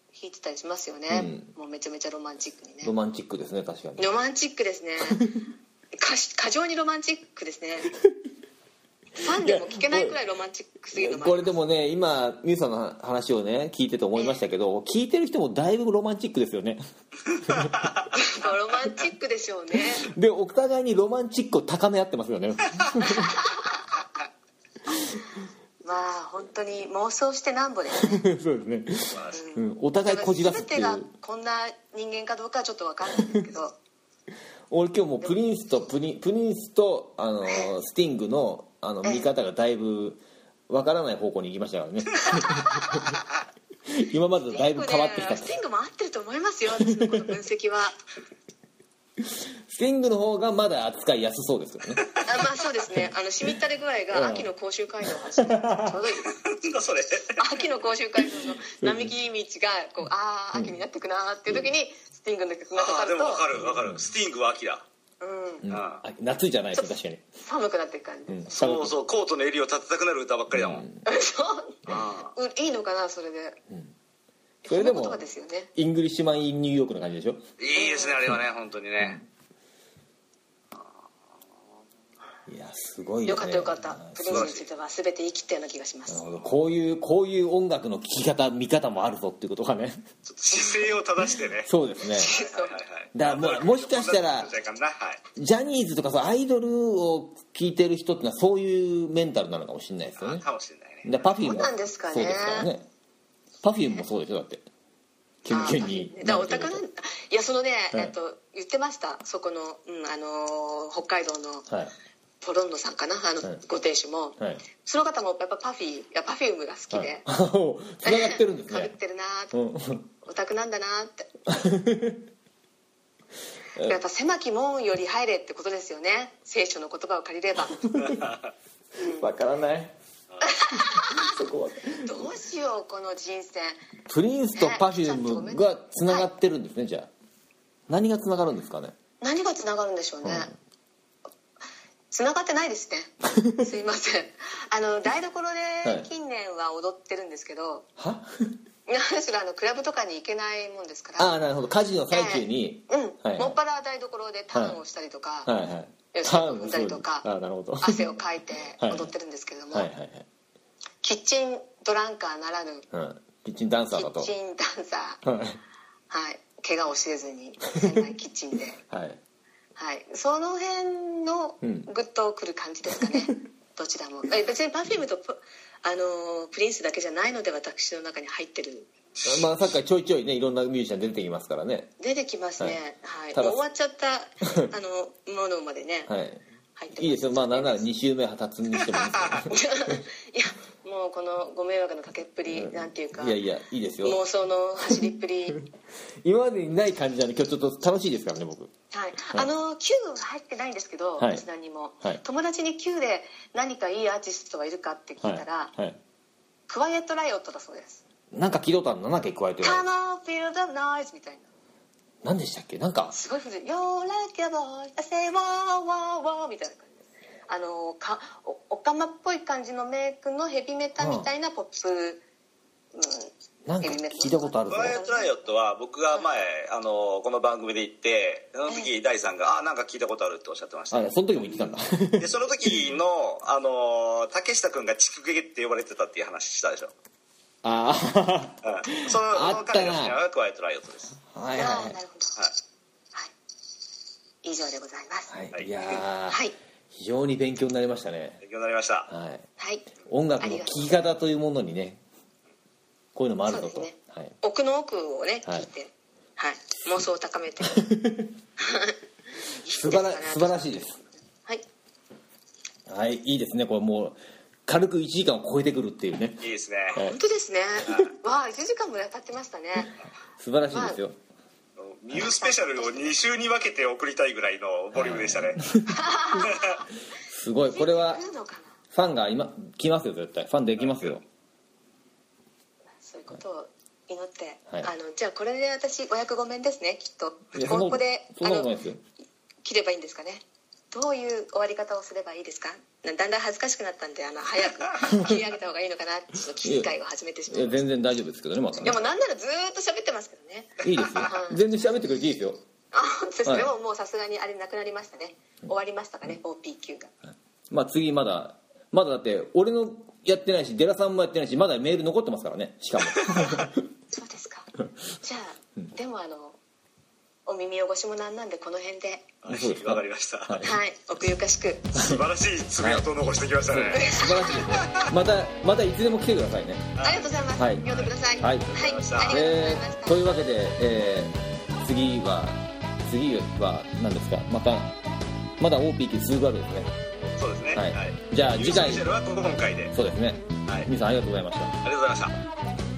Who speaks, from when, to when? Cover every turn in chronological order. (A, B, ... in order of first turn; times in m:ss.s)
0:00.1-0:02.9 A
0:01.1-0:01.5 B
0:02.8-0:04.1 B
0:04.0-0:05.3 A
0:05.9-0:07.9 A
0:09.2-0:11.6 A
0:09.4-0:10.2 B
0:10.9-0:16.8 B
0:14.1-0:14.4 A
0:17.4-0:17.7 B
0:18.1-0:20.1 A
0:20.0-0:23.4 B
0:23.0-0:23.8 A
0:25.8-0:28.2 A
0:28.0-0:31.1 B
0:29.3-0:33.8 A
0:34.7-0:43.2 B
0:39.0-0:39.3 A
0:42.2-0:43.1 A
0:43.9-0:45.5 B
0:44.5-0:48.0 A
0:46.8-0:47.3 B
0:49.2-0:52.2 B
0:52.2-0:56.3 A
0:54.1-0:54.5 B
0:55.1-0:56.0 B
0:56.3-0:57.6 C
0:57.4-1:03.6 A
0:58.4-0:59.1 B
1:00.5-1:00.8 B
1:02.7-1:04.8 C
1:03.6-1:04.0 B
1:05.2-1:05.7 A
1:05.6-1:07.2 B
1:05.7-1:06.0 C
1:06.7-1:08.5 A
1:08.3-1:09.0 B
1:08.6-1:10.8 C
1:10.5-1:11.1 B
1:11.1-1:13.6 A
1:11.9-1:12.3 C
1:14.6-1:15.7 A
1:14.7-1:17.4 B
1:17.6-1:19.2 C
1:17.7-1:18.2 A
1:19.0-1:19.3 B
1:22.5-1:24.5 B
1:23.3-1:26.4 A
1:24.3-1:24.7 C
1:26.1-1:30.0 B
1:30.3-1:35.2 C
1:31.6-1:32.3 B
1:32.1-1:32.8 A
1:33.1-1:34.5 B
1:35.4-1:40.4 B
1:40.2-1:41.1 C
1:41.0-1:42.9 B
1:41.4-1:42.7 A
1:43.6-1:44.7 B
1:45.4-1:46.8 B
1:45.5-1:51.7 A
1:52.4-1:57.3 A
1:54.4-1:54.6 B
1:56.9-1:59.0 B
1:58.0-1:59.6 A
1:59.5-2:00.1 B
2:00.2-2:01.3 A
2:01.5-2:02.2 B
2:03.8-2:08.0 A
2:07.9-2:08.2 B
2:09.0-2:09.3 A
2:09.1-2:10.0 B
2:10.4-2:11.4 A
2:10.7-2:12.3 B
2:12.0-2:13.8 A
2:14.1-2:17.1 B
2:14.6-2:16.3 A
2:17.9-2:19.0 B
2:19.2-2:20.5 A
2:20.2-2:20.5 B
2:22.1-2:27.9 A
2:23.3-2:23.6 B
2:25.8-2:26.1 B
2:28.0-2:28.6 B
2:28.9-2:31.4 A
2:31.2-2:33.6 B
2:32.1-2:35.5 A
2:34.5-2:34.8 B
2:35.4-2:38.0 B
2:36.1-2:37.3 A
2:37.8-2:39.9 A
2:38.8-2:39.1 B
2:39.7-2:40.3 B
2:41.0-2:42.9 A
2:42.9-2:44.3 B
2:44.0-2:45.2 A
2:45.2-2:45.6 B
2:46.1-2:48.8 A
2:48.9-2:49.2 B
2:49.8-2:58.9 A
2:51.6-2:51.9 B
2:59.2-3:01.9 B
3:02.0-3:06.1 A
3:03.3-3:03.6 B
3:06.1-3:10.0 B
3:06.8-3:07.9 A
3:09.5-3:13.4 A
3:12.5-3:14.2 B
3:14.0-3:15.6 A
3:16.2-3:18.7 B
3:18.9-3:25.7 A
3:21.2-3:21.4 B
3:25.2-3:26.0 B
3:26.7-3:28.0 A
3:28.3-3:29.9 B
3:29.6-3:31.5 A
3:32.2-3:33.2 B
3:33.1-3:42.2 A
3:41.0-3:41.3 B
3:42.9-3:45.4 A
3:43.7-3:45.0 B
3:44.7-3:51.1 C
3:50.9-3:52.8 B
3:52.2-3:56.9 C
3:57.6-4:00.2 B
3:58.6-4:01.2 C
4:01.3-4:02.0 B
4:01.5-4:02.3 A
4:04.4-4:05.3 A
4:05.3-4:08.4 B
4:05.9-4:06.6 A
4:08.4-4:09.1 C
4:09.1-4:09.5 B
4:09.6-4:09.9 A
4:10.0-4:12.0 B
4:10.4-4:10.9 A
4:13.1-4:14.4 B
4:13.4-4:17.8 A
4:17.7-4:18.3 B
4:18.6-4:20.7 A
4:19.7-4:21.0 B
4:22.9-4:27.2 B
4:26.4-4:27.0 C
4:27.0-4:30.0 A
4:30.4-4:31.2 B
4:30.7-4:31.0 A
4:31.8-4:35.7 C
4:32.1-4:33.2 A
4:34.9-4:36.5 B
4:35.9-4:36.9 A
4:36.4-4:36.8 C
4:37.3-4:38.2 B
4:37.7-4:38.7 A
4:38.9-4:41.2 B
4:40.9-4:41.1 C
4:43.0-4:48.7 A
4:47.6-4:49.0 B
4:49.6-4:57.8 A
4:56.6-4:56.9 B
4:57.5-4:59.0 B
4:58.8-5:01.6 A
5:00.8-5:02.6 B
5:02.9-5:07.1 A
5:03.4-5:03.7 B
5:07.7-5:13.8 B
5:13.1-5:13.7 C
5:14.1-5:16.6 A
5:17.4-5:19.3 A
5:19.4-5:20.6 C
5:19.4-5:20.8 B
5:20.6-5:22.0 A
5:21.9-5:25.1 C
5:22.8-5:23.1 B
5:23.7-5:27.0 B
5:24.0-5:24.6 A
5:27.0-5:28.1 C
5:27.0-5:30.4 A
5:27.6-5:27.9 B
5:28.4-5:35.0 B
5:28.6-5:29.4 C
5:35.6-5:36.9 B
5:37.4-5:39.9 C
5:37.7-5:39.1 B
5:39.9-5:41.8 B
5:41.8-5:42.4 C